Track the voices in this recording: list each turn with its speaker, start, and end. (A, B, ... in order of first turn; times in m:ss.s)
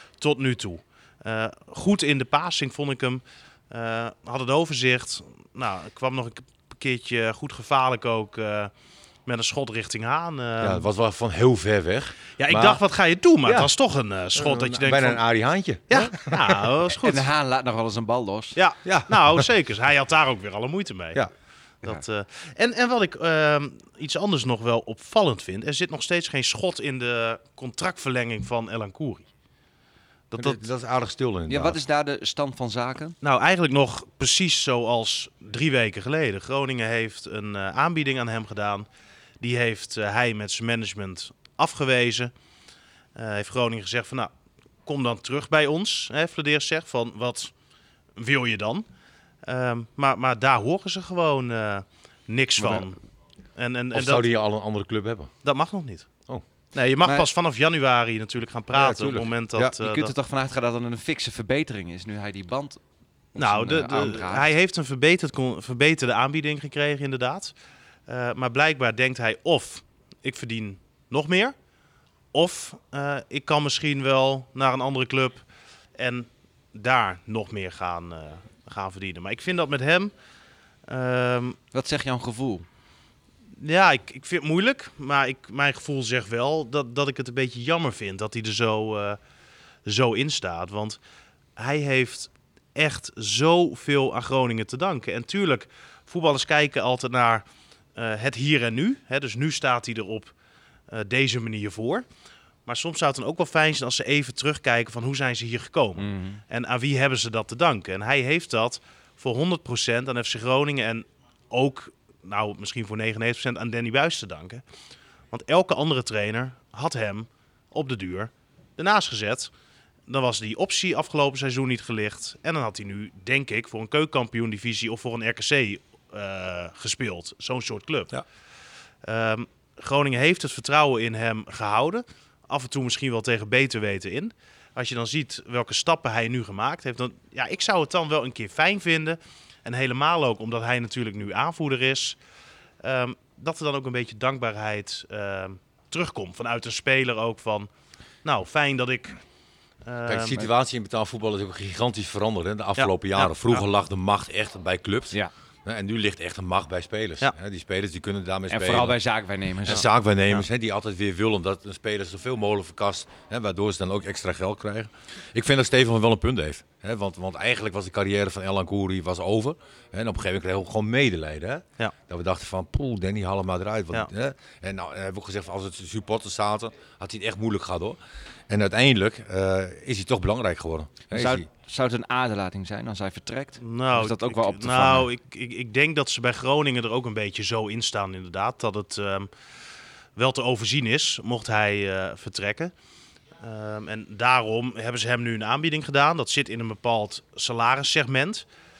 0:00.2-0:08.7 A
0:09.3-0:10.9 A
0:10.6-0:12.8 B
0:12.4-0:15.2 A
0:13.4-0:13.7 B
0:14.3-0:16.7 B
0:15.9-0:17.3 A
0:17.0-0:18.6 C
0:18.6-0:21.2 A
0:18.8-0:19.5 B
0:21.8-0:29.3 A
0:30.3-0:30.6 A
0:30.4-0:31.8 B
0:31.5-0:33.2 C
0:33.2-0:38.9 A
0:39.4-0:42.3 A
0:43.2-0:44.3 A
0:44.9-0:47.5 A
0:48.2-0:48.9 A
0:49.4-0:53.0 A
0:52.6-0:52.9 C
0:53.6-0:54.3 A
0:53.9-0:55.3 B
0:55.4-0:56.1 A
0:56.7-1:00.1 A
0:58.7-0:59.7 B
0:59.8-1:02.8 C
1:03.3-1:04.5 C
1:03.4-1:07.5 A
1:08.1-1:11.6 A
1:12.3-1:15.4 A
1:16.0-1:20.1 A
1:20.9-1:21.6 A
1:21.7-1:22.7 C
1:23.6-1:29.2 A
1:29.9-1:31.0 A
1:31.6-1:37.4 A
1:38.0-1:40.3 A
1:40.9-1:42.0 A
1:42.7-1:54.6 A
1:46.0-1:46.4 C
1:55.3-1:59.5 A
2:00.1-2:08.2 A
2:09.0-2:22.2 A
2:22.8-2:27.7 A
2:28.2-2:29.2 A
2:29.9-2:30.5 A
2:30.1-2:39.0 B
2:32.8-2:33.6 A
2:38.5-2:39.8 C
2:39.6-3:01.5 B
2:39.7-2:40.4 A
3:01.1-3:05.1 C
3:03.6-3:09.3 A
3:10.2-3:12.7 A
3:13.4-3:18.4 A